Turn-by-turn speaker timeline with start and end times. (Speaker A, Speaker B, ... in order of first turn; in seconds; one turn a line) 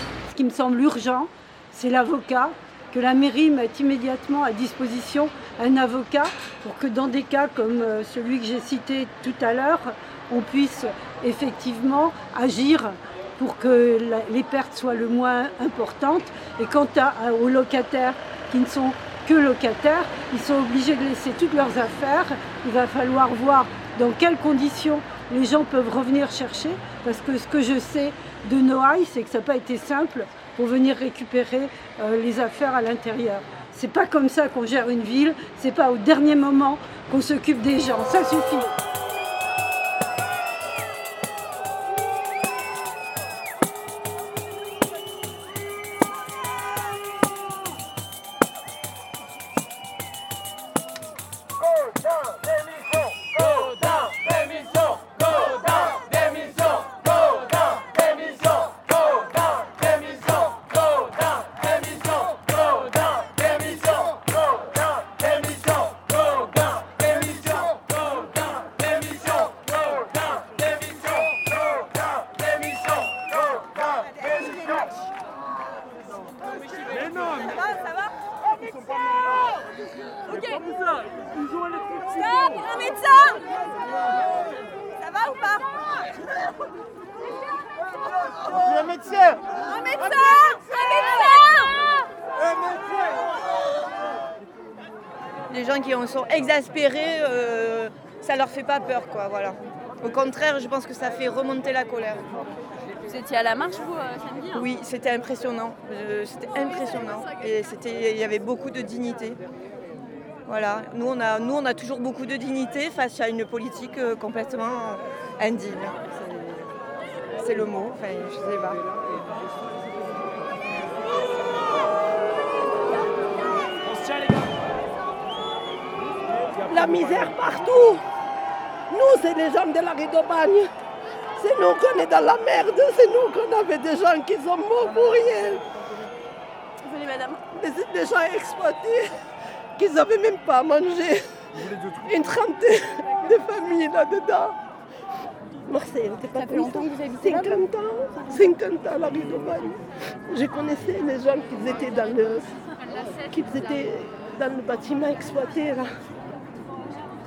Speaker A: 0.3-38.7
Speaker B: 76.9-78.1
Speaker B: 80.3-80.9
Speaker B: 81.9-83.6
Speaker B: 85.0-85.8
Speaker B: 89.5-91.7
Speaker C: 95.5-102.3
Speaker B: 103.0-104.7
Speaker C: 104.6-109.4
Speaker C: 110.5-116.2
Speaker C: 117.4-118.8
Speaker D: 126.7-128.0
Speaker D: 128.9-130.7
Speaker D: 131.4-135.6
Speaker B: 136.8-137.4
Speaker D: 137.5-139.1
Speaker D: 139.8-144.6
Speaker D: 145.7-152.5
Speaker B: 146.3-147.7
Speaker D: 153.2-155.9